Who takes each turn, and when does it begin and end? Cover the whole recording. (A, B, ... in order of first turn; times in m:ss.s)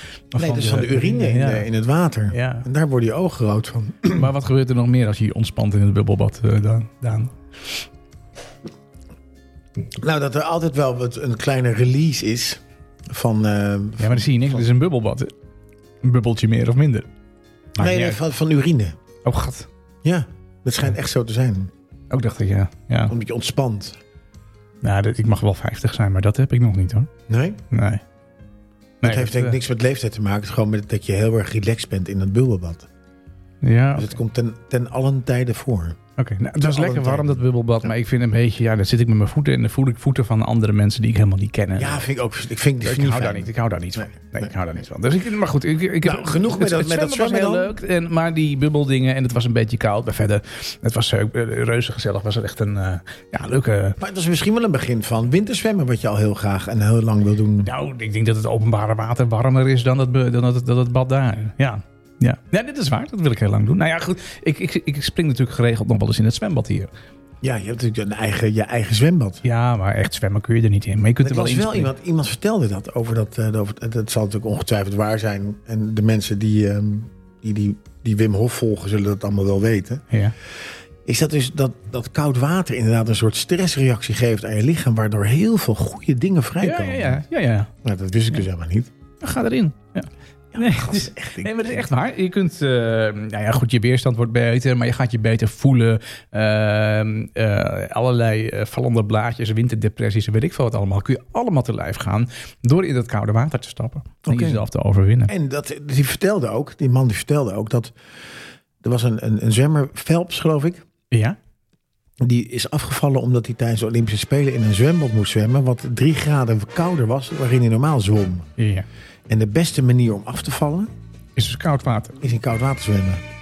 0:00.3-0:01.7 A
0:00.4-0:04.2 B
0:02.3-0:02.7 A
0:04.0-0:07.8 A
0:10.0-0:14.7 B
0:14.0-0:15.3 A
0:16.0-0:17.1 A
0:17.8-0:18.2 A
0:17.8-0:19.0 B
0:19.2-0:19.7 A
0:20.0-0:21.7 B
0:22.1-0:23.1 A
0:23.1-0:24.0 B
0:24.8-0:27.1 A
0:27.3-0:27.6 B
0:27.7-0:28.0 A
0:29.0-0:29.6 A
0:29.0-0:32.9 B
0:33.6-0:34.2 A
0:33.9-0:36.0 B
0:36.2-0:42.0 A
0:36.6-0:37.9 B
0:41.8-0:44.5 B
0:42.8-0:54.0 A
0:46.0-0:47.7 B
0:54.0-0:57.7 B
0:57.6-1:06.9 A
1:07.4-1:09.4 B
1:09.4-1:11.9 A
1:11.2-1:20.0 B
1:21.0-1:27.2 B
1:26.6-1:27.7 A
1:27.8-1:28.9 B
1:29.2-1:45.3 A
1:30.5-1:31.8 B
1:44.3-1:44.6 B
1:45.3-1:47.9 B
1:48.8-1:50.8 B
1:51.1-1:51.4 A
1:52.2-1:58.5 B
1:58.6-1:58.8 A
1:59.3-2:00.9 B
2:01.4-2:02.2 A
2:02.2-2:03.2 B